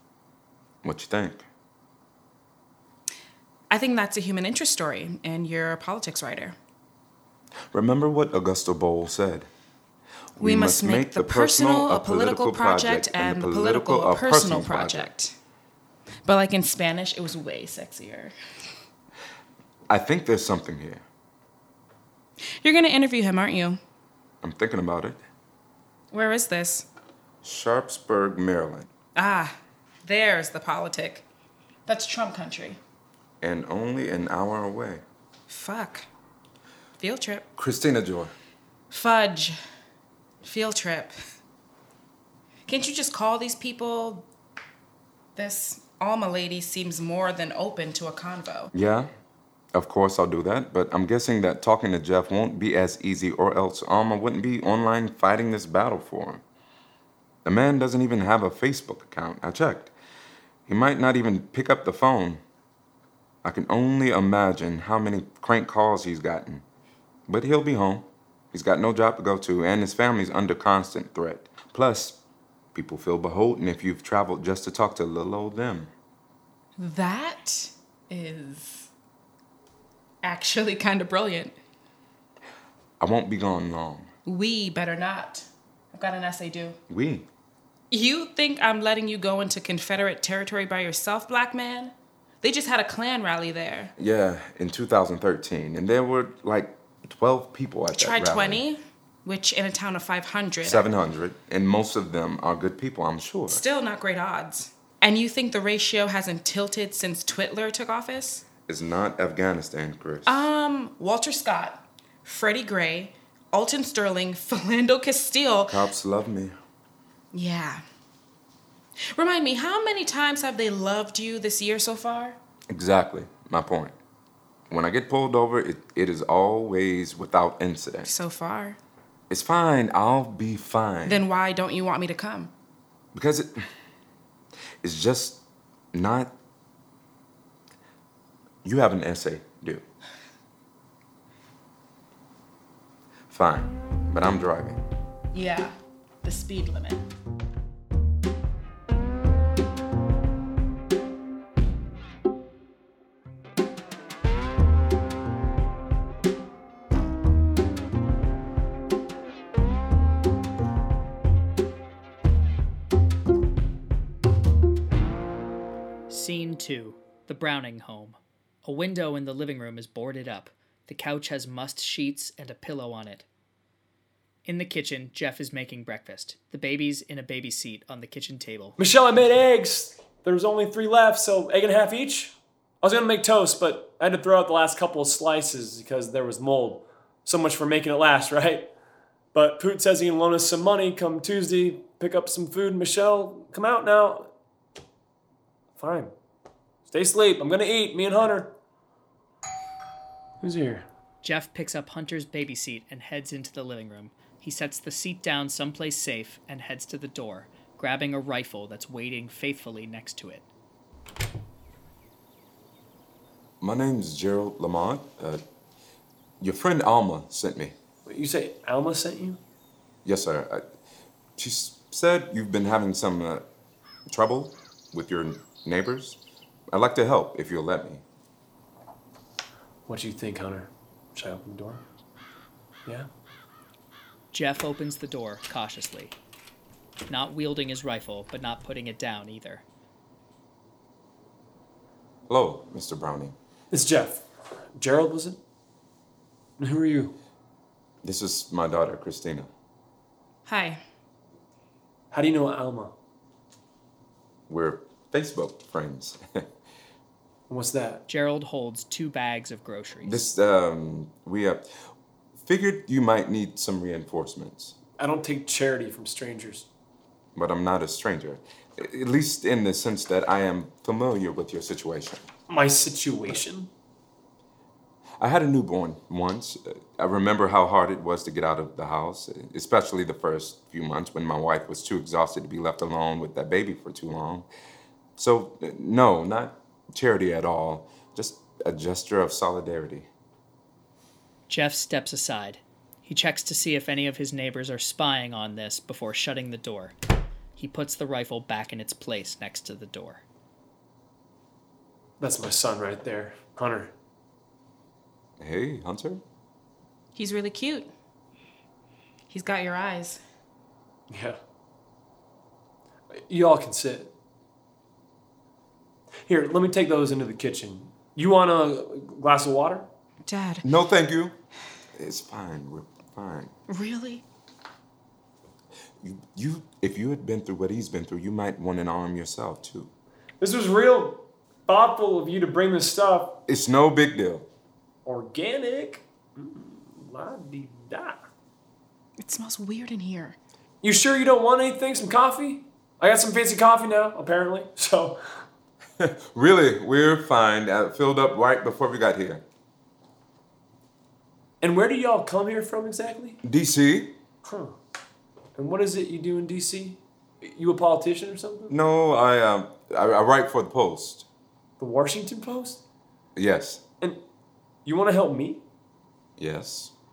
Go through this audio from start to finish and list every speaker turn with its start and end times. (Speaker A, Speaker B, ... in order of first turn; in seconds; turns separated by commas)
Speaker A: 0.8-1.4, Speaker B: 3.7-6.5, Speaker A: 7.7-9.5, Speaker A: 10.3-15.1, Speaker B: 10.4-15.3, Speaker B: 16.2-18.3, Speaker A: 19.9-21.0, Speaker B: 22.6-23.8, Speaker A: 24.4-25.2, Speaker B: 26.1-26.9, Speaker A: 27.4-28.9, Speaker B: 29.1-31.2, Speaker B: 31.9-32.8, Speaker A: 33.4-35.0, Speaker B: 35.5-36.1, Speaker B: 37.0-37.5, Speaker A: 37.6-38.3, Speaker B: 38.9-39.6, Speaker B: 40.4-41.1, Speaker B: 42.7-44.3, Speaker B: 45.4-48.7, Speaker A: 48.7-49.1, Speaker A: 49.7-56.4, Speaker A: 57.4-59.9, Speaker A: 60.7-62.4, Speaker A: 63.4-66.6, Speaker A: 67.3-72.2, Speaker A: 72.7-75.9, Speaker B: 76.8-78.9, Speaker B: 80.2-81.5, Speaker A: 83.0-84.1, Speaker B: 84.2-86.8, Speaker A: 86.9-87.3, Speaker B: 87.9-93.9, Speaker A: 94.0-98.6, Speaker B: 97.9-100.8, Speaker A: 100.6-103.6, Speaker B: 103.5-108.5, Speaker A: 108.7-110.5, Speaker B: 110.2-115.8, Speaker A: 115.7-116.5, Speaker B: 117.3-117.8, Speaker B: 119.1-122.4, Speaker A: 122.7-123.9, Speaker A: 124.7-128.1, Speaker B: 128.0-128.8, Speaker A: 129.3-131.2, Speaker B: 131.1-132.5, Speaker A: 133.1-133.7, Speaker A: 134.8-135.4, Speaker A: 135.9-136.3, Speaker A: 138.6-139.8, Speaker A: 143.3-144.8, Speaker B: 145.3-147.0, Speaker C: 166.1-173.3, Speaker C: 174.4-178.8, Speaker D: 178.8-188.7, Speaker D: 189.3-194.3, Speaker D: 195.8-196.1, Speaker D: 196.9-198.5, Speaker D: 200.4-200.8, Speaker C: 201.2-210.4, Speaker A: 213.6-215.4, Speaker A: 216.4-217.7, Speaker D: 218.1-219.4, Speaker A: 220.0-220.6, Speaker A: 221.3-223.4, Speaker A: 224.1-226.2, Speaker A: 226.7-228.0, Speaker D: 229.9-231.8, Speaker C: 234.3-236.1, Speaker C: 237.1-239.6, Speaker A: 242.3-243.3, Speaker D: 243.7-245.4, Speaker D: 246.6-247.2, Speaker A: 248.0-249.5, Speaker B: 250.4-250.8, Speaker D: 252.1-252.9, Speaker A: 254.5-256.5, Speaker D: 257.5-258.0, Speaker C: 258.1-260.3, Speaker A: 260.0-261.7, Speaker A: 262.4-264.7, Speaker D: 265.0-266.7, Speaker A: 267.3-272.2, Speaker D: 272.5-273.7, Speaker A: 275.2-284.5, Speaker A: 285.2-290.1, Speaker C: 291.5-296.9, Speaker C: 297.6-300.2, Speaker D: 302.2-303.9, Speaker A: 305.4-306.2, Speaker B: 307.1-307.9, Speaker B: 309.3-310.2, Speaker D: 311.1-311.4, Speaker D: 313.1-314.1, Speaker D: 316.3-319.9, Speaker B: 320.2-320.6, Speaker A: 320.6-321.3, Speaker A: 321.9-323.5, Speaker B: 323.7-324.2, Speaker A: 326.0-329.9, Speaker D: 330.4-333.4, Speaker A: 333.5-334.5, Speaker D: 335.0-338.2, Speaker B: 339.2-340.4, Speaker D: 340.8-345.4, Speaker A: 346.0-349.4, Speaker D: 351.6-353.4, Speaker A: 353.4-354.1, Speaker D: 354.4-354.8, Speaker D: 355.6-358.7, Speaker A: 358.7-361.3, Speaker D: 361.8-362.8, Speaker A: 363.4-363.8, Speaker D: 364.8-365.6, Speaker A: 366.4-366.9